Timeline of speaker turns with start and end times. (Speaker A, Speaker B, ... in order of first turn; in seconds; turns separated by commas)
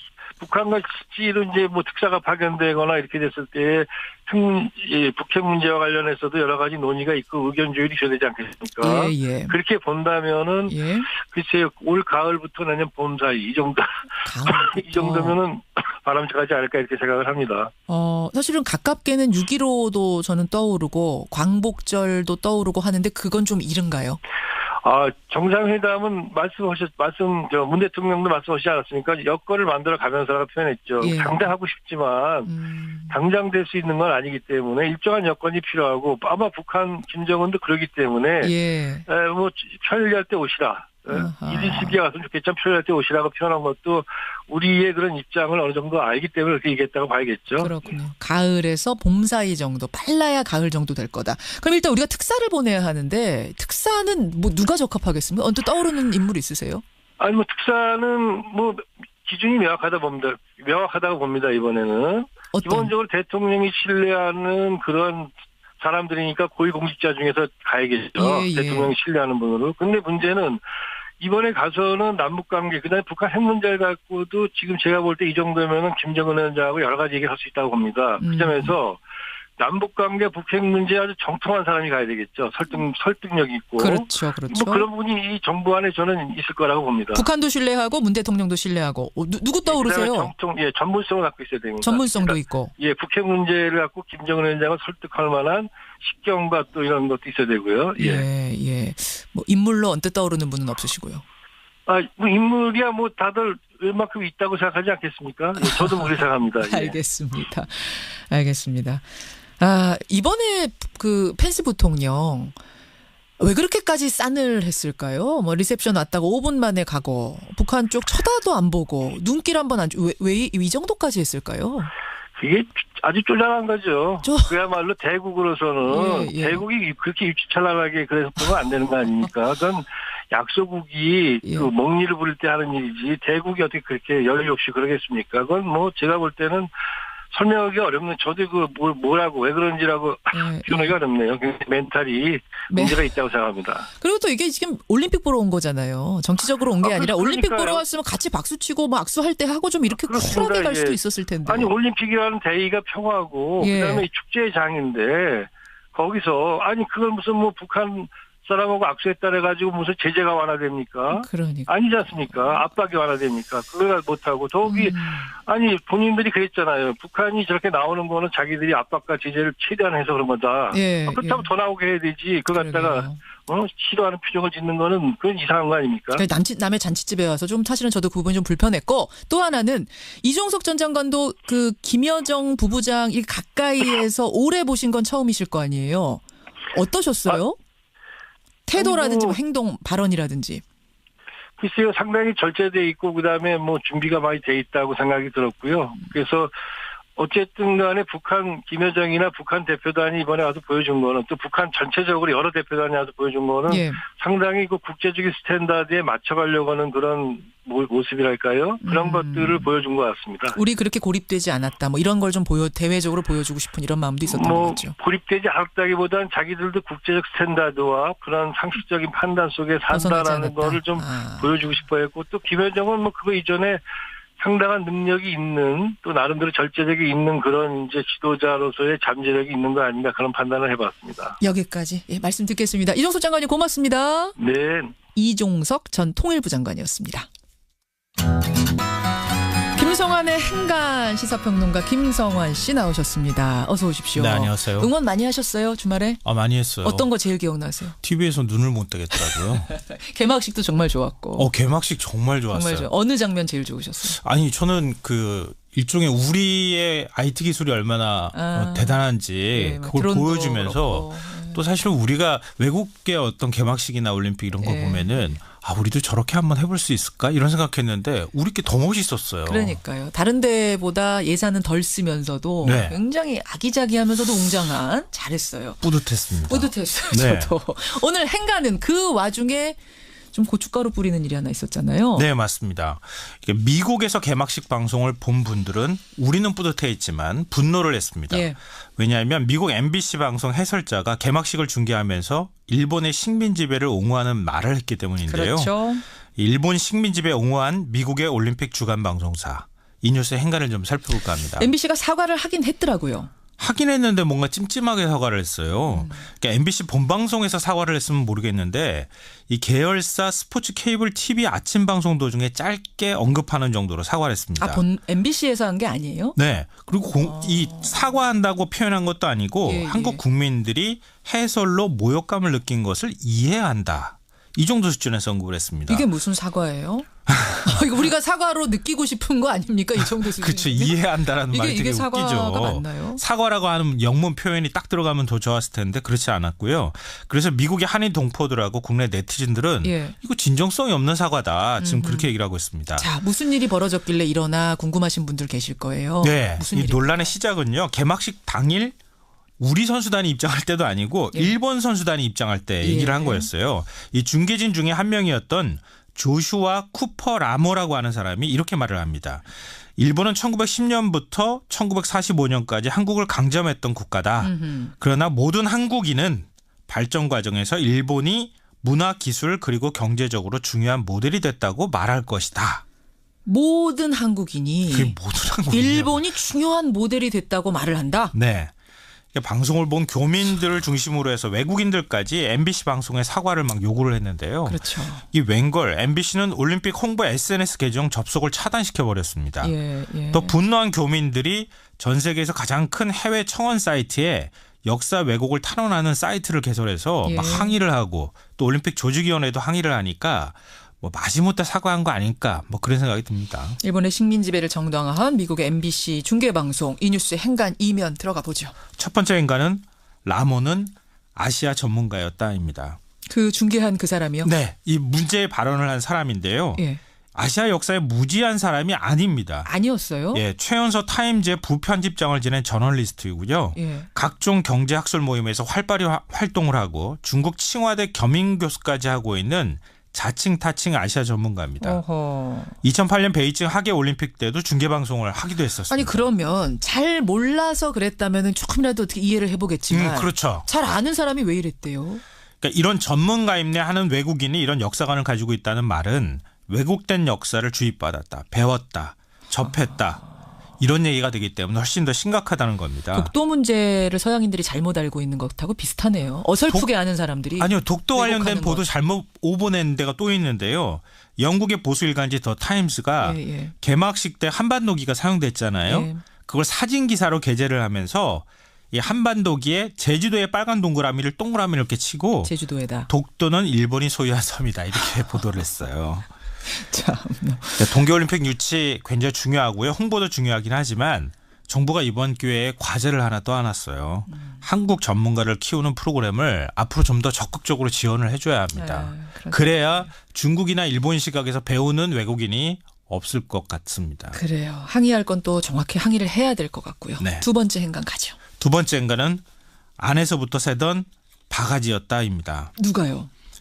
Speaker A: 0.4-13.9, Speaker B: 8.8-9.6, Speaker B: 10.7-11.1, Speaker B: 14.2-15.4, Speaker A: 14.5-17.7, Speaker B: 17.9-24.2, Speaker A: 24.8-32.5, Speaker B: 31.0-31.5, Speaker B: 32.5-33.2, Speaker A: 33.1-38.5, Speaker B: 38.4-39.1, Speaker A: 39.1-47.7, Speaker B: 41.1-42.0, Speaker B: 47.6-56.8, Speaker A: 57.2-70.6, Speaker B: 62.5-62.9, Speaker B: 68.2-69.0, Speaker A: 71.2-79.0, Speaker B: 78.2-78.8, Speaker A: 79.6-87.3, Speaker B: 83.8-84.9, Speaker B: 87.1-90.3, Speaker A: 89.7-98.3, Speaker B: 91.8-92.7, Speaker B: 98.0-101.2, Speaker A: 101.9-107.0, Speaker B: 105.6-109.0, Speaker B: 109.6-112.5, Speaker B: 113.4-121.9, Speaker A: 122.4-136.7, Speaker B: 124.2-124.5, Speaker B: 125.9-126.6, Speaker B: 131.4-131.7, Speaker A: 137.3-143.9, Speaker B: 140.3-141.0, Speaker B: 142.7-143.1, Speaker B: 143.9-151.7, Speaker A: 146.8-147.8, Speaker A: 150.1-176.2, Speaker B: 153.6-154.1, Speaker B: 161.1-161.7, Speaker B: 162.4-162.6, Speaker B: 164.7-165.3, Speaker B: 170.7-171.5, Speaker B: 172.5-173.2, Speaker B: 176.2-187.6, Speaker B: 188.7-190.6, Speaker A: 188.8-189.4, Speaker A: 191.6-196.5, Speaker A: 197.2-210.6, Speaker B: 203.7-204.0, Speaker B: 208.8-209.7, Speaker B: 210.5-214.9, Speaker A: 214.3-223.8, Speaker B: 219.9-221.5, Speaker A: 224.4-231.4, Speaker B: 231.4-234.4, Speaker A: 234.4-234.9, Speaker B: 235.2-237.3, Speaker B: 239.8-246.2, Speaker C: 244.2-244.9, Speaker C: 246.2-247.1, Speaker B: 246.8-248.0, Speaker C: 248.0-249.7, Speaker B: 249.2-251.5, Speaker C: 251.4-252.9, Speaker B: 252.5-254.2, Speaker C: 254.2-269.8, Speaker B: 258.3-261.6, Speaker B: 264.6-265.2, Speaker B: 269.5-275.8, Speaker C: 272.6-273.0, Speaker C: 275.8-277.5, Speaker B: 276.5-279.8, Speaker B: 280.3-282.3, Speaker C: 282.2-295.7, Speaker B: 288.3-288.6, Speaker B: 295.3-296.0, Speaker C: 296.4-301.7, Speaker B: 301.6-303.3, Speaker C: 303.6-314.8, Speaker B: 305.9-306.3, Speaker B: 314.6-316.4, Speaker C: 316.4-326.1, Speaker B: 317.2-318.1, Speaker B: 319.6-320.2, Speaker B: 325.9-327.1, Speaker C: 327.3-327.8, Speaker B: 327.6-331.0, Speaker C: 330.0-343.1, Speaker B: 331.5-333.2, Speaker B: 339.8-340.1, Speaker B: 341.8-342.3, Speaker B: 343.0-347.3, Speaker C: 346.2-348.9, Speaker C: 349.6-359.4, Speaker B: 352.8-353.5, Speaker C: 360.0-372.8, Speaker B: 364.4-364.9, Speaker B: 373.5-375.1, Speaker C: 374.9-376.2, Speaker B: 375.7-378.3, Speaker C: 378.3-378.7, Speaker C: 379.3-389.8, Speaker B: 384.7-385.2, Speaker B: 389.6-390.6, Speaker C: 390.3-403.8, Speaker B: 397.2-397.8, Speaker B: 403.8-408.8, Speaker C: 409.0-413.0, Speaker B: 413.3-414.5, Speaker C: 414.4-416.8, Speaker B: 416.8-417.0, Speaker C: 417.4-419.7, Speaker B: 419.6-420.4, Speaker C: 420.3-432.0, Speaker B: 423.8-424.1, Speaker B: 431.8-432.8, Speaker C: 432.8-436.3, Speaker B: 435.9-442.2, Speaker C: 439.9-440.7, Speaker C: 442.6-450.2, Speaker B: 449.6-450.0, Speaker C: 450.8-453.3, Speaker B: 453.1-458.9, Speaker C: 457.6-472.5, Speaker B: 463.2-463.7, Speaker B: 465.9-466.2, Speaker B: 472.4-473.1, Speaker C: 473.1-476.3, Speaker B: 476.7-478.0, Speaker C: 477.8-494.4, Speaker B: 484.3-484.6, Speaker B: 488.8-490.1, Speaker B: 494.3-498.4, Speaker C: 497.2-497.5, Speaker C: 498.6-499.4, Speaker C: 500.0-502.7, Speaker B: 502.8-503.3